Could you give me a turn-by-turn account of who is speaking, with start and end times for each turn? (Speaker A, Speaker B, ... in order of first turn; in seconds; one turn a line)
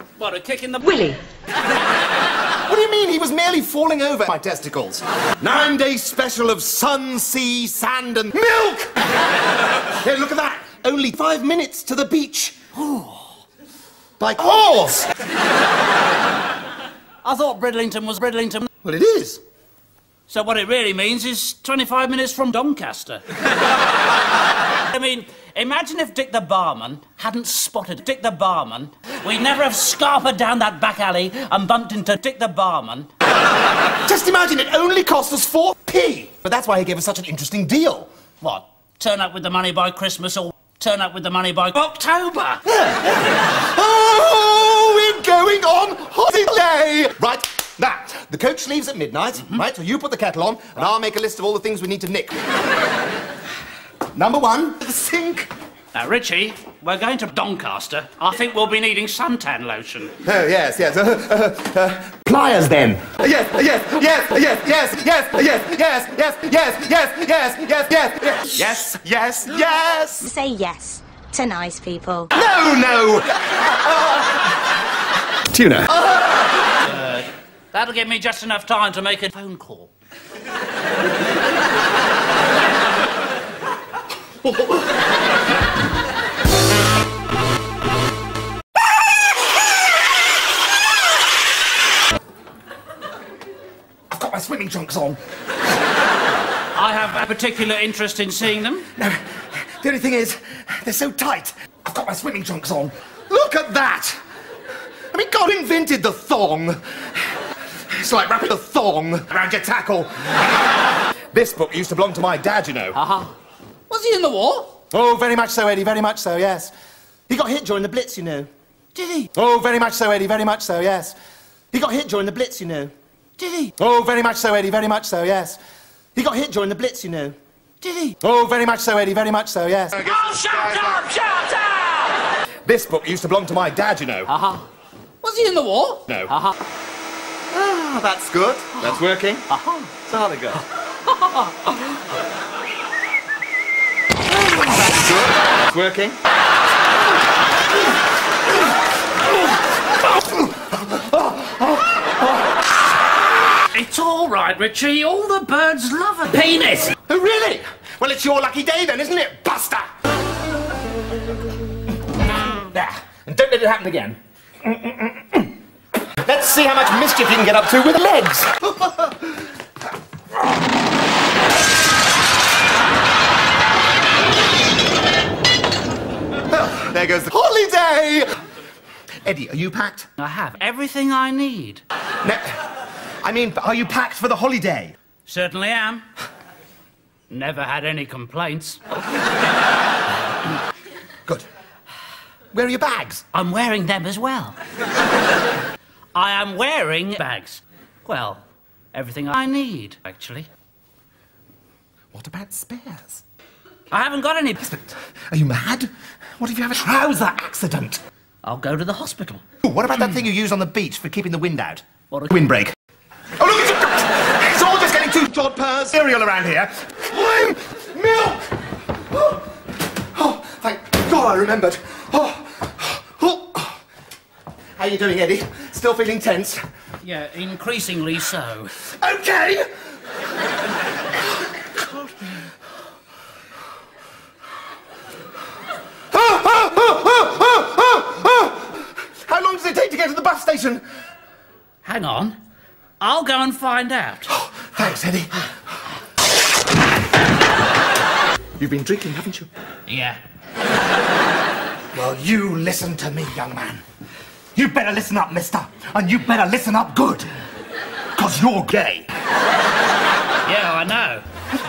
Speaker A: 0.2-0.9
Speaker B: 0.8-1.2
Speaker C: 2.6-9.0
Speaker C: 10.0-12.6
Speaker A: 12.8-13.3
Speaker C: 14.2-15.1
Speaker A: 17.2-18.7
Speaker C: 18.8-19.4
Speaker A: 20.3-23.2
Speaker A: 24.8-33.1
Speaker C: 34.0-38.1
Speaker A: 38.4-42.6
Speaker C: 42.6-52.4
Speaker C: 54.1-55.5
Speaker A: 55.9-60.1
Speaker C: 60.2-70.3
Speaker B: 70.2-72.3
Speaker C: 72.3-74.2
Speaker C: 75.5-76.0
Speaker A: 76.8-79.9
Speaker C: 94.1-95.2
Speaker A: 96.7-98.9
Speaker C: 99.0-104.2
Speaker C: 105.1-110.7
Speaker C: 111.3-113.0
Speaker A: 113.0-113.3
Speaker A: 113.9-114.8
Speaker C: 114.9-116.7
Speaker C: 117.3-118.5
Speaker A: 118.9-119.3
Speaker C: 119.3-121.2
Speaker C: 121.7-122.9
Speaker A: 123.4-123.7
Speaker C: 123.8-125.6
Speaker C: 126.1-127.4
Speaker A: 127.8-128.1
Speaker C: 128.2-131.1
Speaker A: 129.9-132.3
Speaker C: 132.6-134.3
Speaker A: 134.3-134.7
Speaker A: 135.2-136.5
Speaker C: 136.1-136.3
Speaker C: 137.5-140.6
Speaker A: 139.5-139.9
Speaker C: 144.4-146.2
Speaker C: 150.9-151.2
Speaker A: 153.7-156.9
Speaker C: 157.1-159.9
Speaker C: 162.7-165.5
Speaker C: 166.2-169.0
Speaker C: 176.5-178.4
Speaker C: 179.2-180.1
Speaker A: 180.2-181.8
Speaker C: 182.2-182.6
Speaker C: 183.2-184.9
Speaker A: 185.3-186.0
Speaker A: 187.3-188.8
Speaker C: 192.5-193.2
Speaker A: 193.3-194.6
Speaker A: 196.1-200.5
Speaker C: 202.1-203.2
Speaker A: 203.9-204.6
Speaker C: 204.6-208.0
Speaker A: 208.4-209.4
Speaker C: 209.6-212.7
Speaker A: 212.1-212.4
Speaker C: 213.4-218.5
Speaker C: 219.1-219.4
Speaker C: 220.1-223.8
Speaker C: 224.8-226.6
Speaker A: 227.0-228.7
Speaker C: 228.8-229.7
Speaker C: 236.1-240.8
Speaker A: 241.8-242.4
Speaker A: 243.0-244.3
Speaker C: 244.3-245.5
Speaker C: 248.6-249.5
Speaker A: 249.9-250.2
Speaker C: 251.9-253.8
Speaker C: 254.5-257.3
Speaker C: 258.1-259.1
Speaker A: 260.4-261.2